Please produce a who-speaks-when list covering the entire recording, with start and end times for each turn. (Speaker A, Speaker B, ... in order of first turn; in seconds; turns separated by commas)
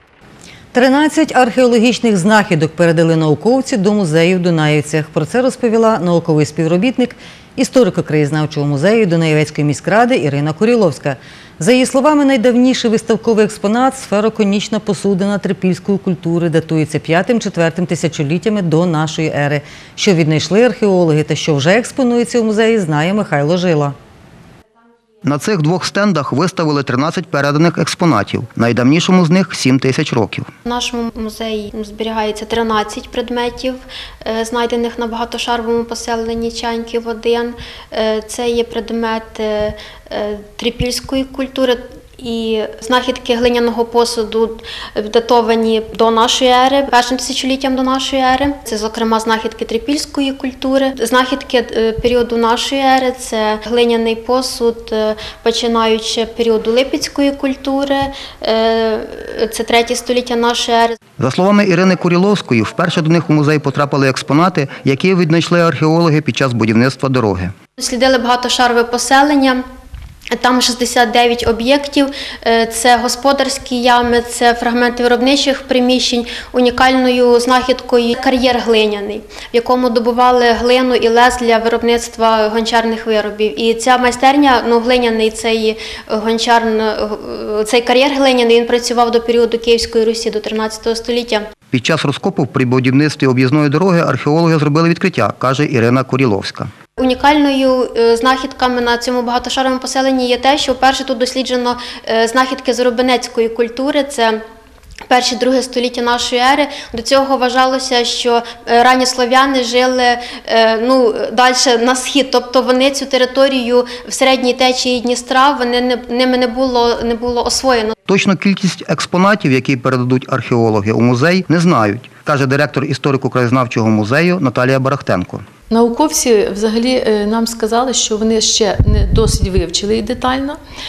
Speaker A: 0.7-23.9, Speaker B: 25.2-30.5, Speaker C: 30.6-61.0, Speaker B: 61.2-67.5, Speaker C: 67.8-69.6, Speaker C: 70.3-91.5, Speaker B: 91.7-96.7, Speaker C: 97.0-104.4, Speaker C: 105.1-117.9, Speaker B: 118.1-125.4, Speaker D: 125.7-130.6